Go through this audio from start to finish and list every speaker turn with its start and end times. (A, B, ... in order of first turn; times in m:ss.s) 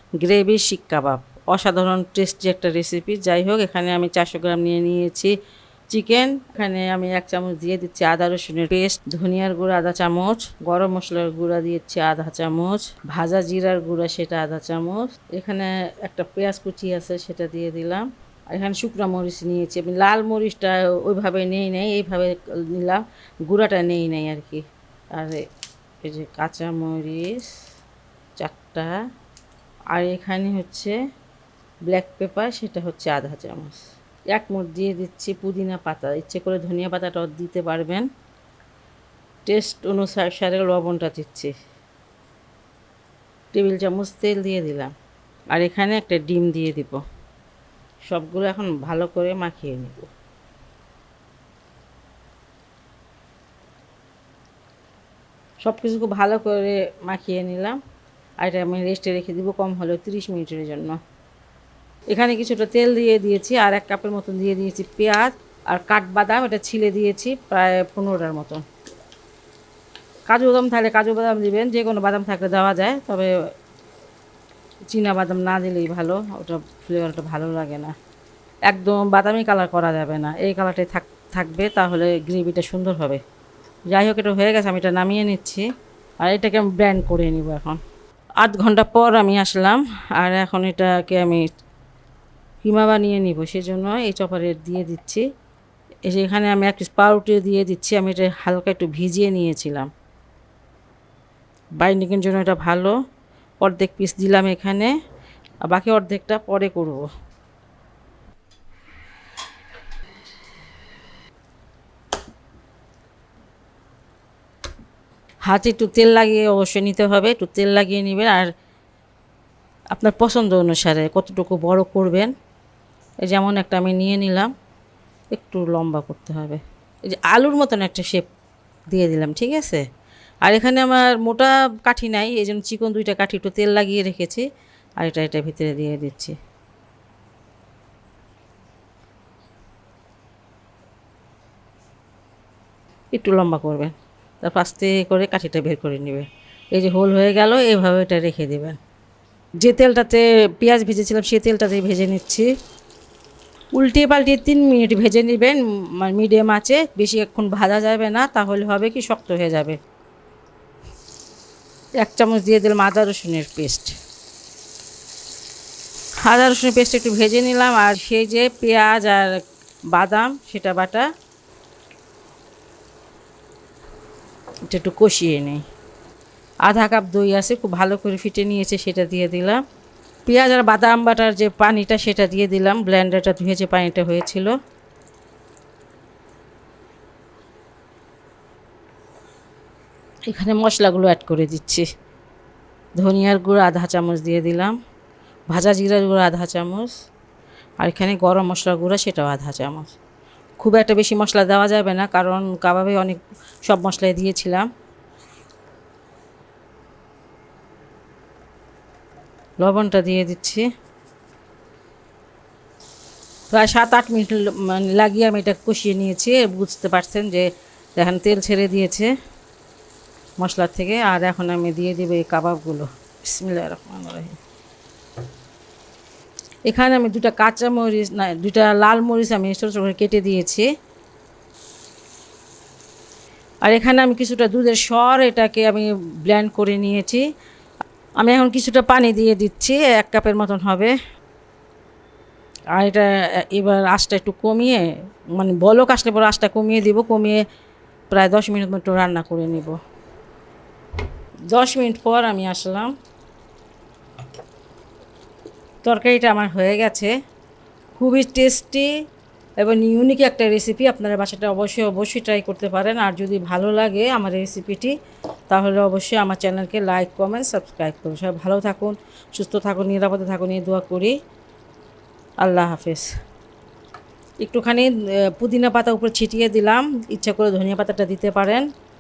0:00.2-0:05.3 A
0:05.9-0:24.6 A
0:26.0-0:27.4 A
0:28.4-0:29.0 A
0:29.9-0:30.9 A
0:31.9-0:33.8 A
0:34.3-0:38.0 A
0:39.5-0:41.5 A
0:43.5-0:44.9 A
0:45.5-0:47.0 A
0:48.1-0:50.1 A
0:55.6-0:57.8 A
0:58.4-1:01.0 A
1:02.1-1:08.6 A
1:10.3-1:13.3 A
1:14.9-1:17.9 A
1:18.7-1:23.2 A
1:23.9-1:25.6 A
1:26.2-1:27.8 A
1:28.4-1:31.4 A
1:32.6-1:35.2 A
1:36.1-1:39.9 A
1:41.8-1:42.9 A
1:43.6-1:44.9 A
1:45.7-1:47.1 A
1:55.5-1:58.5 A
1:59.9-2:02.3 A
2:03.2-2:04.5 A
2:05.3-2:06.6 A
2:07.1-2:08.3 A
2:08.9-2:09.8 A
2:10.4-2:14.4 A
2:15.0-2:16.3 A
2:23.1-2:28.8 A
2:29.6-2:32.5 A
2:33.7-2:39.8 A
2:42.0-2:43.9 A
2:46.2-2:49.4 A
2:49.9-2:51.1 A
2:54.6-2:55.6 A
2:56.6-2:59.6 A
3:00.3-3:04.5 A
3:10.3-3:11.9 A
3:13.0-3:14.8 A
3:15.5-3:16.9 A
3:17.8-3:19.9 A
3:20.6-3:24.7 A
3:29.6-3:30.6 A
3:33.5-3:39.1 A
3:40.4-3:44.4 A
3:46.7-3:50.7 A
3:53.6-3:57.2 A
3:58.2-4:00.9 A
4:02.7-4:07.4 A
4:08.1-4:09.7 A
4:11.5-4:12.9 A
4:15.8-4:17.1 A
4:18.0-4:18.9 A
4:19.6-4:24.9 A
4:25.5-4:31.1 A
4:32.4-4:33.1 A
4:34.4-4:38.6 A